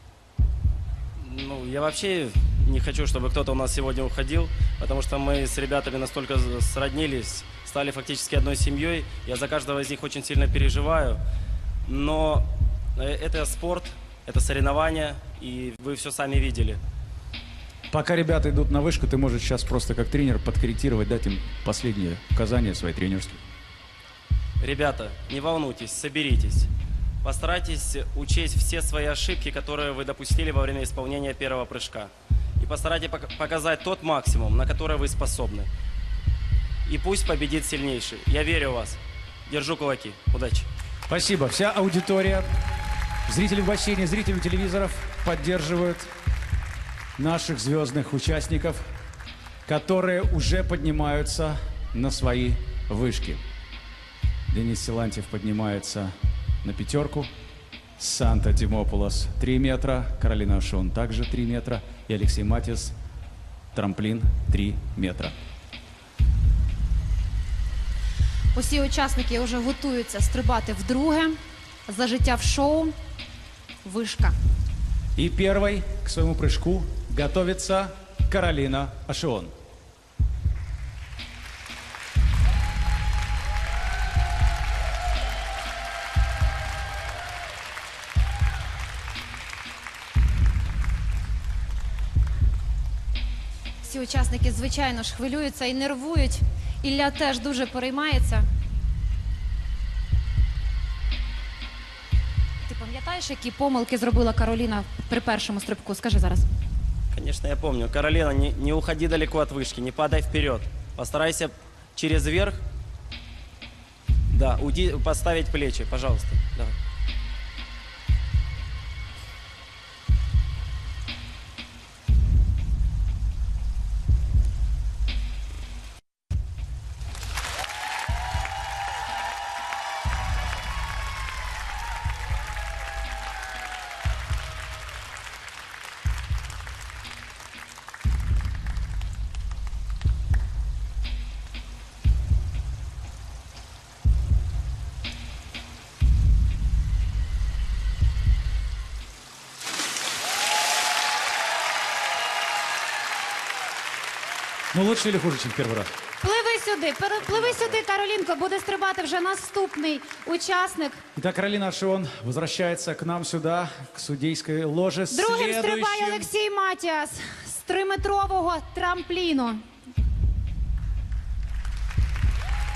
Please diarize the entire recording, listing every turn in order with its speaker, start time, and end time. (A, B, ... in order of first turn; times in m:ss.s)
0:01.2-0:11.2 A
0:11.8-0:16.8 A
0:17.9-0:23.4 B
0:24.6-0:26.7 A
0:27.2-0:35.7 A
0:36.8-0:40.7 A
0:41.1-0:42.4 B
0:43.2-0:46.1 B
0:47.2-0:48.8 B
0:49.6-0:53.4 B
0:54.5-0:57.3 B
0:58.0-1:02.9 B
1:03.7-1:05.3 B
1:08.5-1:11.4 C
1:11.9-1:12.9 C
1:13.8-1:14.3 C
1:15.2-1:19.5 B
1:33.8-1:38.4 C
1:42.6-1:46.5 C
1:47.1-1:52.6 A
1:54.3-1:56.8 A
2:34.7-2:35.9 B
2:36.2-2:41.0 C
2:41.1-2:46.3 B
2:45.1-2:49.6 C